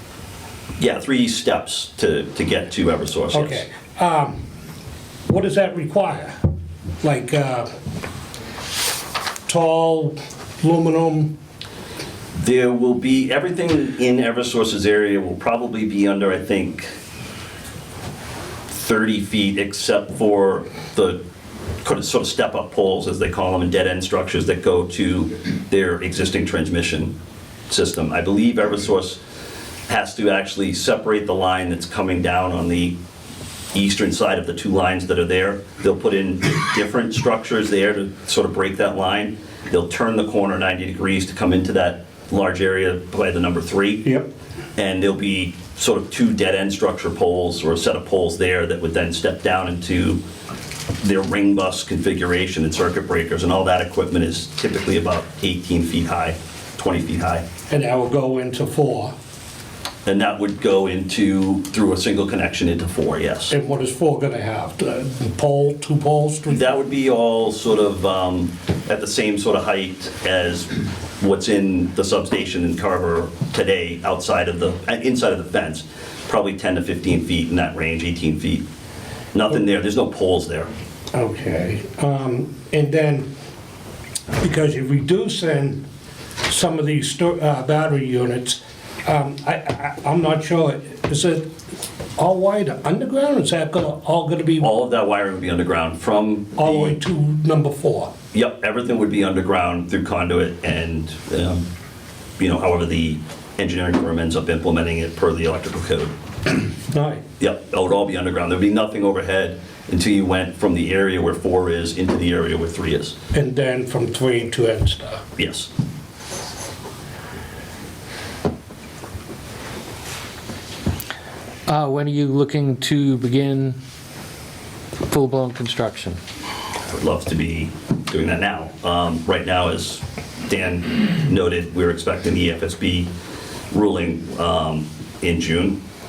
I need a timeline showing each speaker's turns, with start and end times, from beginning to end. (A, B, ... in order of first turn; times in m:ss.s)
0:00.8-0:03.6 A
0:03.3-0:04.4 B
0:05.3-0:06.4 B
0:07.0-0:07.7 B
0:09.4-0:11.4 B
0:12.3-0:16.9 A
0:18.7-0:21.2 A
0:21.8-0:27.1 A
0:27.7-0:29.2 A
0:29.9-0:33.0 A
0:33.7-0:44.1 A
0:44.0-0:44.3 B
0:44.8-0:50.2 A
0:51.0-0:57.4 A
0:57.7-0:59.1 B
1:00.0-1:03.5 A
1:03.5-1:06.8 B
1:06.5-1:18.6 A
1:19.3-1:20.7 A
1:21.1-1:23.3 B
1:24.4-1:25.8 B
1:26.5-1:31.5 B
1:32.2-1:34.7 B
1:34.6-1:37.0 A
1:36.6-1:38.1 B
1:38.3-1:41.6 A
1:42.4-1:46.6 A
1:46.9-1:47.2 B
1:47.4-1:53.1 A
1:53.3-1:55.2 B
1:55.4-1:55.7 A
2:01.7-2:03.8 C
2:05.0-2:06.2 C
2:06.9-2:13.1 A
2:13.7-2:15.8 A